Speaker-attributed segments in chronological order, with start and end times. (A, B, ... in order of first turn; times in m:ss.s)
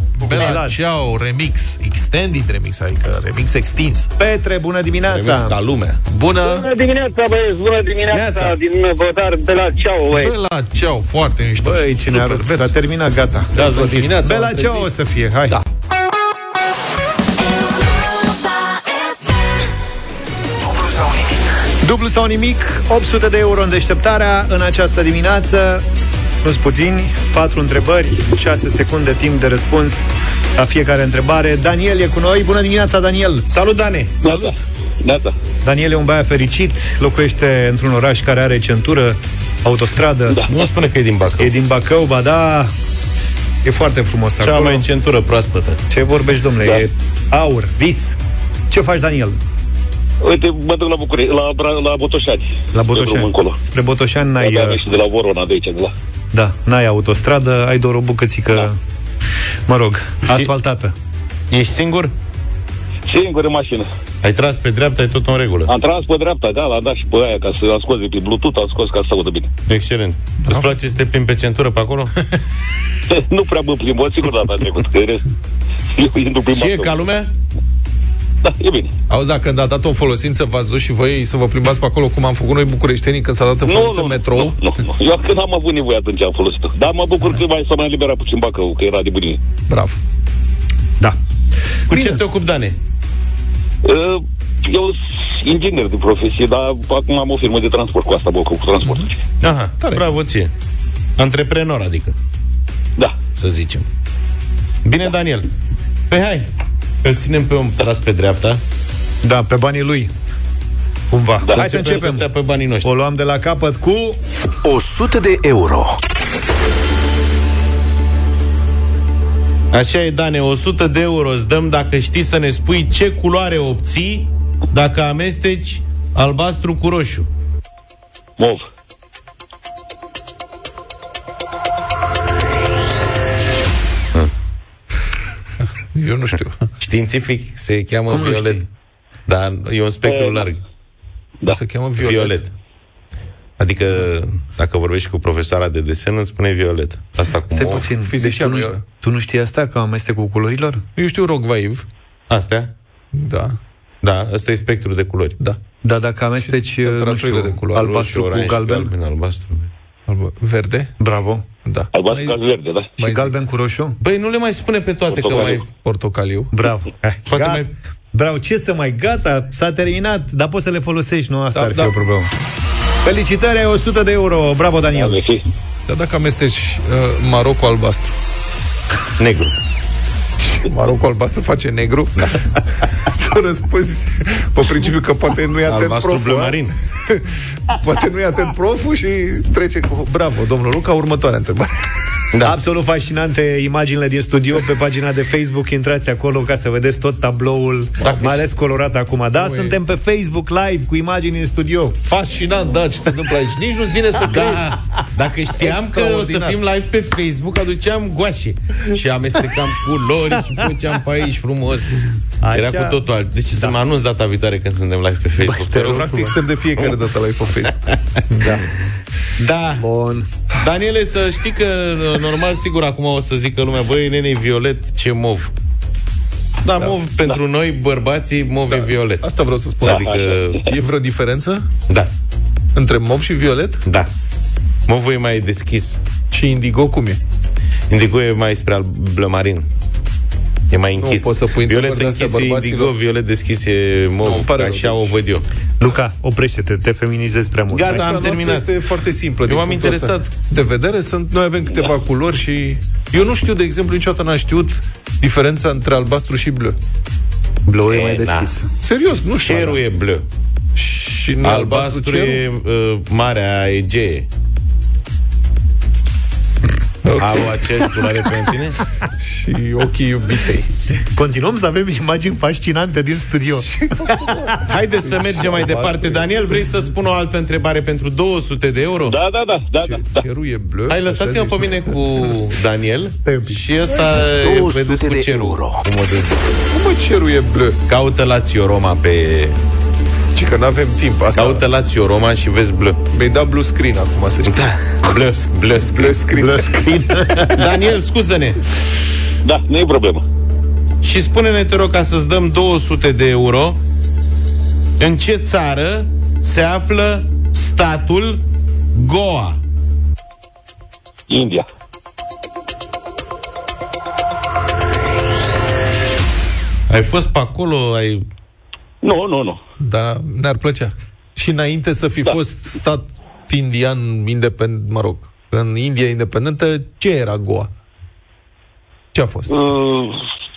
0:00.2-0:00.8 A
0:00.2-0:04.1 B
0:04.2-0:05.6 A
0:05.1-0:06.0 C
0:06.1-0:06.7 B
0:06.4-0:10.3 D
0:08.1-0:08.6 C
0:10.1-0:12.7 B
0:11.6-0:15.6 A
0:13.6-0:14.1 C
0:13.6-0:14.9 B
0:21.8-0:25.8 A
0:26.4-0:30.0 A
0:30.6-0:33.4 A
0:33.5-0:34.2 C
0:34.2-0:35.3 E
0:34.2-0:34.5 B
0:35.6-0:40.4 A
0:40.5-0:41.5 C
0:41.4-0:42.7 A
0:43.6-0:44.8 A
0:44.4-0:45.8 C
0:45.9-0:48.2 A
0:48.7-0:49.4 A
0:50.2-0:53.6 E
0:52.7-0:54.8 A
0:54.4-0:55.9 E
0:56.3-0:58.8 A
0:59.7-1:00.9 A
1:01.5-1:02.1 C
1:03.1-1:03.9 E
1:04.2-1:05.7 C
1:05.7-1:09.5 E
1:09.7-1:12.1 C
1:13.1-1:15.2 E
1:15.9-1:17.0 E
1:16.5-1:17.3 C
1:18.4-1:18.9 E
1:19.1-1:24.6 B
1:23.6-1:29.4 E
1:29.7-1:30.0 B
1:31.9-1:32.2 A
1:31.9-1:32.8 C
1:33.8-1:39.2 E
1:39.4-1:40.5 C
1:39.8-1:40.0 B
1:41.2-1:42.1 C
1:43.3-1:43.8 C
1:44.8-1:45.5 C
1:46.1-1:46.5 C
1:47.0-1:48.6 C
1:49.2-1:50.1 A
1:51.1-1:52.3 A
1:51.5-1:52.9 C
1:52.8-1:54.2 A
1:54.6-1:56.0 F
1:59.7-2:07.3 C
2:08.4-2:08.6 E
2:15.8-2:16.7 B
2:16.8-2:18.6 C
2:18.1-2:18.6 A
2:19.3-2:20.6 C
2:20.0-2:20.5 E
2:21.5-2:22.4 B
2:22.0-2:22.5 C
2:23.6-2:27.9 C
2:27.5-2:30.8 A
2:27.8-2:28.8 B
2:31.0-2:31.8 B
2:32.3-2:32.7 C
2:33.1-2:33.6 B
2:34.0-2:35.4 C
2:35.8-2:38.9 A
2:36.4-2:37.9 B
2:37.8-2:39.7 C
2:40.1-2:40.9 B
2:41.0-2:41.4 A
2:41.6-2:42.4 B
2:41.9-2:42.9 E
2:43.0-2:43.4 B
2:43.0-2:44.0 A
2:44.0-2:45.7 C
2:45.1-2:45.6 E
2:45.8-2:46.5 B
2:46.5-2:52.3 A
2:47.3-2:47.7 C
2:51.5-2:51.9 B
2:53.0-2:55.2 A
2:54.9-2:55.4 E
2:55.9-2:58.2 B
2:59.2-2:59.5 C
3:00.4-3:02.4 B
3:03.0-3:11.9 B
3:05.7-3:06.7 C
3:12.4-3:22.0 A
3:18.0-3:18.4 C
3:19.4-3:19.8 B
3:22.0-3:24.8 B
3:24.3-3:32.0 C
3:25.6-3:26.6 B
3:32.4-3:33.0 A
3:32.5-3:36.2 C
3:35.4-3:36.3 A
3:35.7-3:37.8 B
3:36.8-3:37.0 C
3:37.7-3:37.9 C
3:38.3-3:38.7 A
3:39.4-3:39.8 C
3:39.8-3:40.3 A
3:40.6-3:45.5 C
3:46.6-3:49.2 C
3:48.7-3:51.7 B
3:49.8-3:50.6 C
3:49.9-3:50.3 E
3:52.7-3:53.8 B
3:54.9-3:56.0 C
3:56.3-3:57.2 B
3:57.9-3:59.7 C
4:00.7-4:05.4 C
4:01.0-4:02.9 B
4:04.2-4:05.2 B
4:05.8-4:08.2 A
4:07.7-4:08.7 C
4:07.8-4:16.8 B
4:09.4-4:10.3 C
4:17.7-4:18.7 A
4:17.9-4:18.5 C
4:18.8-4:19.8 B
4:19.4-4:20.2 C
4:20.8-4:22.4 B
4:21.4-4:24.3 C
4:27.0-4:27.6 B
4:27.2-4:28.8 C
4:29.2-4:30.7 B
4:31.0-4:34.5 A
4:33.6-4:36.3 B
4:34.6-4:39.2 C
4:39.1-4:40.2 E
4:39.8-4:42.3 B
4:40.9-4:46.6 C
4:43.2-4:43.6 A
4:44.1-4:45.8 F
4:46.7-4:47.8 B
4:47.9-4:49.6 C
4:50.3-4:51.6 B
4:51.3-4:53.0 C
4:53.1-4:54.6 B
4:54.4-4:56.1 C
4:55.7-4:57.2 B
4:56.4-4:57.6 A
4:57.5-4:58.6 C
4:59.4-5:00.2 E
5:01.0-5:03.8 C
5:05.0-5:09.6 C
5:11.3-5:11.6 E
5:16.9-5:18.2 C
5:19.0-5:19.6 E
5:19.8-5:27.7 B
5:29.1-5:29.5 B
5:29.5-5:30.2 E